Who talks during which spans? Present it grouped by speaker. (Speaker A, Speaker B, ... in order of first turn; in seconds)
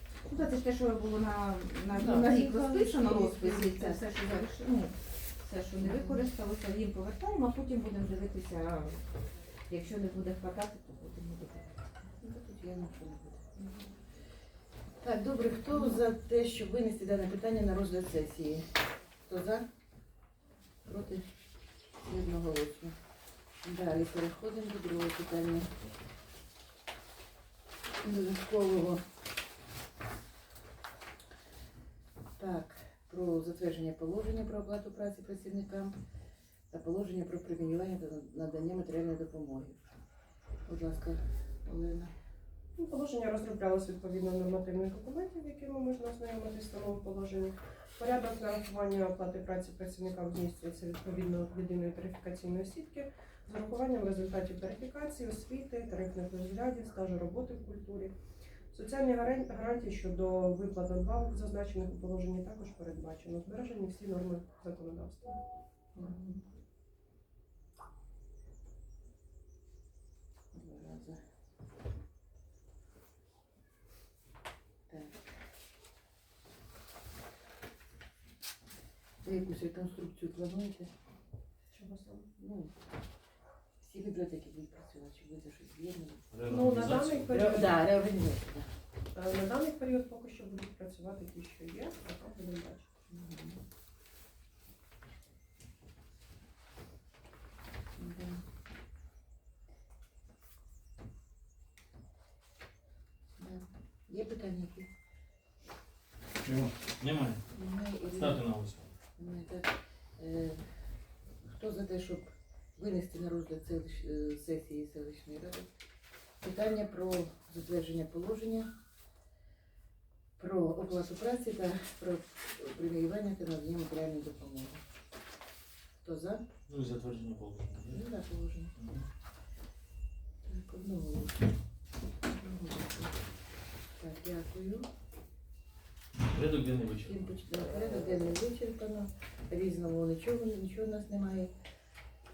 Speaker A: 0.2-12.1, 13.6-13.8
Speaker B: 1.9-4.1, 5.8-6.2, 12.2-13.5, 15.0-19.6, 20.8-21.3, 22.0-23.0, 23.6-25.8, 28.0-29.1, 32.4-35.9, 36.7-39.8, 40.6-42.1, 66.0-66.4, 70.5-71.2, 74.9-75.3, 79.2-80.9, 82.4-82.7, 83.8-86.3, 87.3-88.7, 93.1-93.6, 98.0-98.4, 103.4-104.9, 107.5-108.4, 109.2-110.6, 111.4-115.7, 116.4-118.7, 120.4-124.8, 126.0-126.5, 127.9-128.7, 130.4-131.5, 132.3-133.2, 134.0-134.9, 137.0-141.5
Speaker C: 42.8-58.1, 58.7-65.4, 81.7-82.3, 86.5-87.8, 89.1-92.9
Speaker D: 86.3-87.3, 106.4-107.4, 108.1-108.9, 126.7-128.1, 128.8-129.0, 136.2-137.2